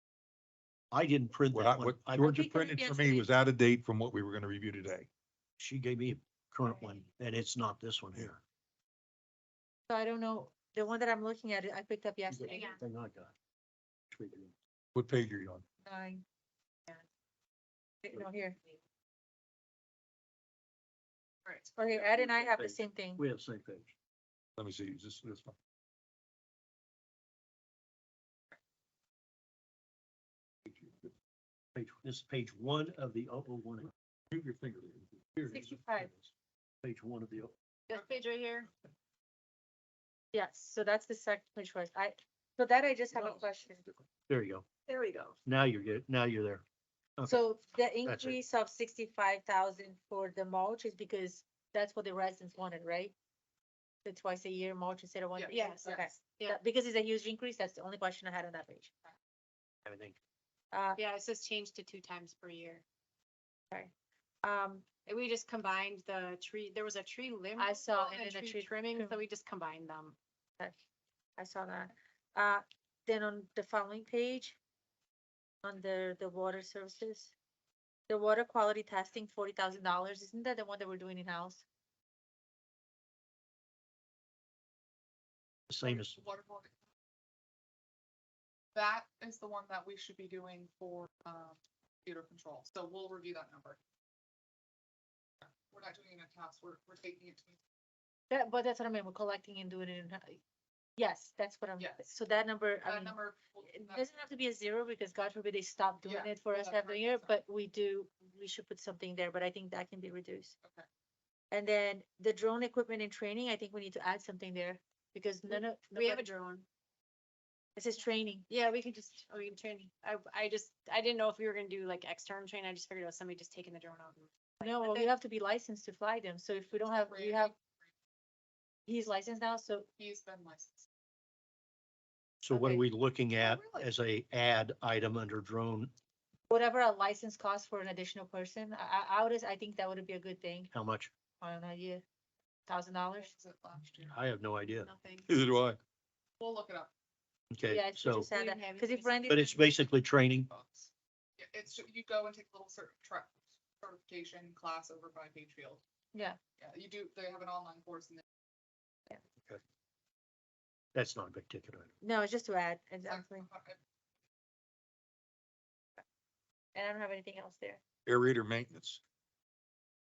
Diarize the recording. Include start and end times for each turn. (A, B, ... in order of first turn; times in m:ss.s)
0:00.9-0:02.5 A
0:01.5-0:05.1 B
0:02.2-0:03.3 C
0:05.6-0:08.4 A
0:09.9-0:12.7 C
0:12.3-0:13.3 A
0:14.1-0:14.5 A
0:14.9-0:15.6 B
0:15.8-0:16.2 C
0:18.0-0:18.6 C
0:21.4-0:21.8 D
0:21.8-0:23.2 C
0:22.4-0:22.7 B
0:23.2-0:23.9 A
0:24.6-0:25.5 B
0:30.6-0:31.1 B
0:31.8-0:33.9 A
0:34.3-0:35.6 B
0:35.5-0:36.1 C
0:35.5-0:36.3 A
0:36.8-0:37.5 A
0:37.9-0:38.7 E
0:40.3-0:43.9 C
0:44.3-0:44.6 A
0:44.9-0:45.3 E
0:45.4-0:46.6 A
0:47.2-0:47.4 A
0:47.2-0:53.1 C
0:48.0-0:48.4 A
0:54.0-0:58.9 C
0:55.4-0:56.1 D
0:55.5-0:56.6 E
0:59.8-1:00.2 A
1:00.7-1:01.0 C
1:01.0-1:02.8 E
1:04.4-1:04.9 C
1:05.0-1:10.2 E
1:07.6-1:09.2 C
1:11.4-1:14.6 C
1:15.6-1:17.3 C
1:18.1-1:21.6 C
1:25.7-1:26.2 A
1:25.8-1:26.7 D
1:28.7-1:33.8 D
1:35.4-1:37.6 D
1:38.3-1:40.4 C
1:41.0-1:43.2 C
1:41.8-1:42.0 D
1:42.8-1:44.1 D
1:43.7-1:50.5 C
1:46.0-1:47.4 D
1:51.5-1:56.2 C
1:55.5-1:56.6 E
1:57.8-1:58.4 C
1:58.5-2:05.1 E
2:04.6-2:07.5 C
2:07.1-2:07.9 D
2:08.9-2:09.9 C
2:10.0-2:10.9 D
2:12.4-2:15.9 A
2:12.5-2:12.8 D
2:13.4-2:13.9 D
2:16.5-2:20.7 C
2:20.7-2:21.1 A
2:21.4-2:22.0 C
2:22.7-2:23.3 C
2:23.2-2:24.2 D
2:24.1-2:24.9 A
2:24.8-2:25.4 E
2:25.3-2:25.8 B
2:26.4-2:26.9 D
2:27.5-2:28.3 A
2:27.7-2:29.6 C
2:28.3-2:29.4 E
2:29.3-2:30.5 A
2:29.8-2:35.8 D
2:36.6-2:38.2 D
2:40.9-2:41.9 A
2:42.0-2:43.5 C
2:43.0-2:43.8 D
2:46.7-2:47.8 C
2:48.0-2:49.0 B